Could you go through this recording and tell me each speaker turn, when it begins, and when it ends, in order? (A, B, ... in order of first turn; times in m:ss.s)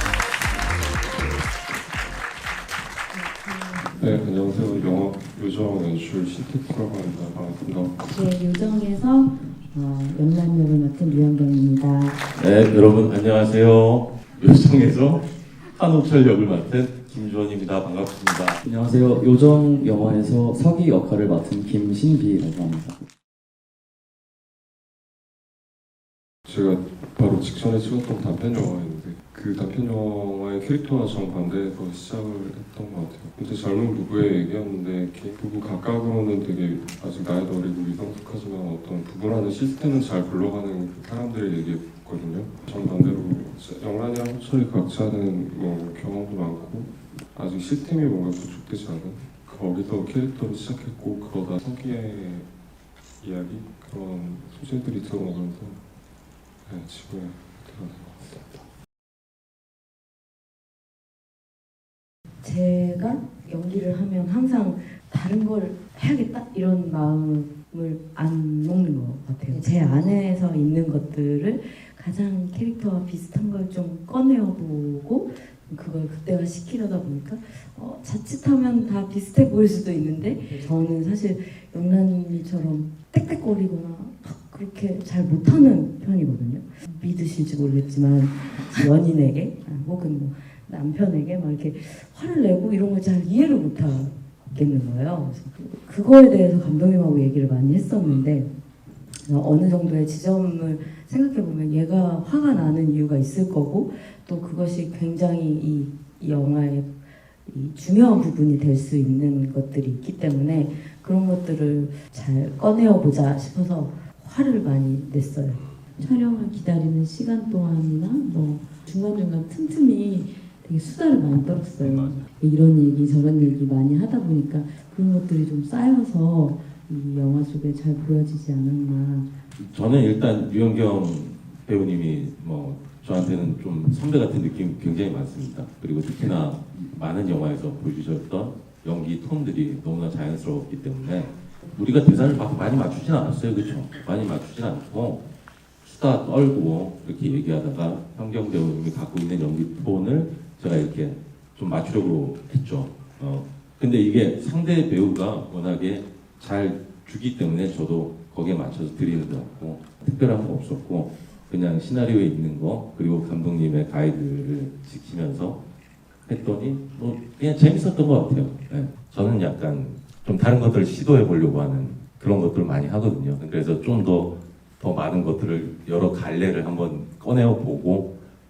0:03.1-0:04.2 A
0:04.0-0:08.1 B
0:08.0-0:12.2 A
0:12.3-0:18.6 C
0:18.6-0:23.0 D
0:26.4-0:52.5 B
0:53.2-0:55.8 B
0:56.6-0:58.6 B
1:02.4-1:38.5 A
1:39.2-1:46.9 A
1:47.4-2:09.4 A
2:01.8-2:02.3 C
2:09.6-2:25.2 C
2:25.8-2:45.6 C
2:46.2-2:58.1 C